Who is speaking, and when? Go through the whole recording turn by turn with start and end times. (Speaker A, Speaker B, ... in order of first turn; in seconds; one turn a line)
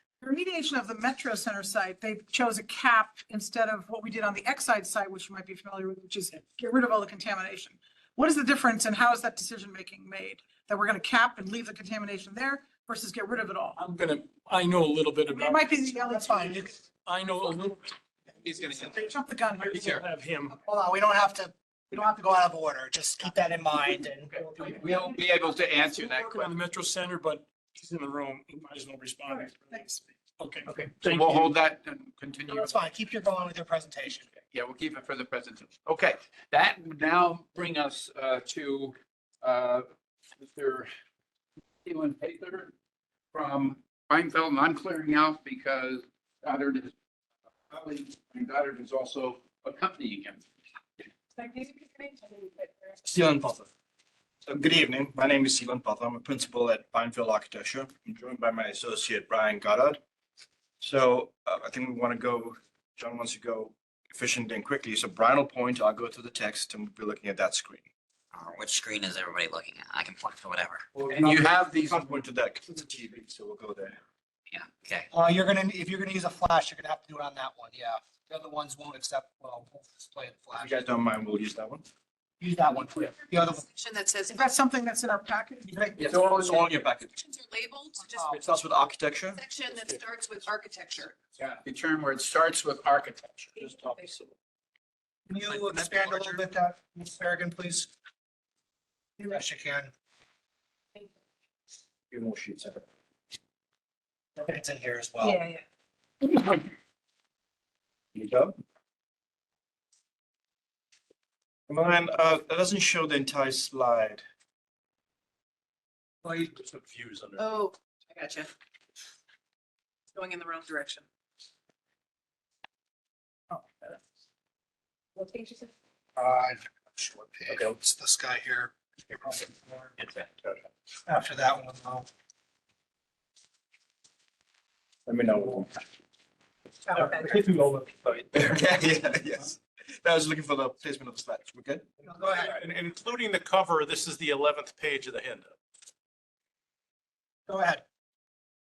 Speaker A: 0.2-13.8
Speaker B: 13.8-15.7
Speaker A: 15.3-16.8
Speaker C: 15.9-16.8
Speaker B: 17.0-17.9
Speaker D: 18.4-19.1
Speaker A: 18.9-19.9
Speaker B: 19.6-20.5
Speaker C: 20.5-25.2
Speaker D: 24.3-26.5
Speaker B: 25.7-29.8
Speaker A: 29.3-30.1
Speaker B: 30.4-31.5
Speaker D: 30.6-32.7
Speaker C: 32.5-34.3
Speaker D: 34.5-40.9
Speaker D: 41.8-42.7
Speaker D: 43.3-46.9
Speaker D: 47.7-50.4
Speaker A: 51.4-52.9
Speaker E: 53.0-53.7
Speaker E: 54.4-60.0
Speaker E: 60.8-67.9
Speaker F: 68.3-70.8
Speaker E: 70.9-74.0
Speaker D: 71.1-72.2
Speaker F: 74.5-75.1
Speaker C: 75.1-80.8
Speaker E: 80.5-81.9
Speaker C: 82.4-83.6
Speaker G: 83.3-84.4
Speaker A: 84.3-86.1
Speaker E: 86.0-87.2
Speaker G: 86.2-88.4
Speaker E: 88.4-89.4
Speaker G: 89.2-91.2
Speaker D: 91.4-93.5
Speaker G: 93.5-94.2
Speaker E: 93.6-94.2
Speaker C: 95.3-97.9
Speaker C: 99.2-99.9
Speaker E: 102.1-102.8
Speaker C: 104.3-105.4
Speaker G: 105.2-105.6
Speaker E: 108.1-108.5
Speaker E: 111.7-114.2
Speaker H: 116.2-117.4
Speaker G: 117.4-118.5
Speaker G: 120.1-121.0
Speaker G: 125.2-125.7
Speaker C: 126.2-129.9
Speaker C: 131.1-132.1
Speaker E: 135.1-135.7
Speaker G: 136.9-137.4
Speaker E: 138.3-141.9
Speaker C: 142.0-142.6
Speaker H: 142.3-145.5
Speaker C: 147.5-147.8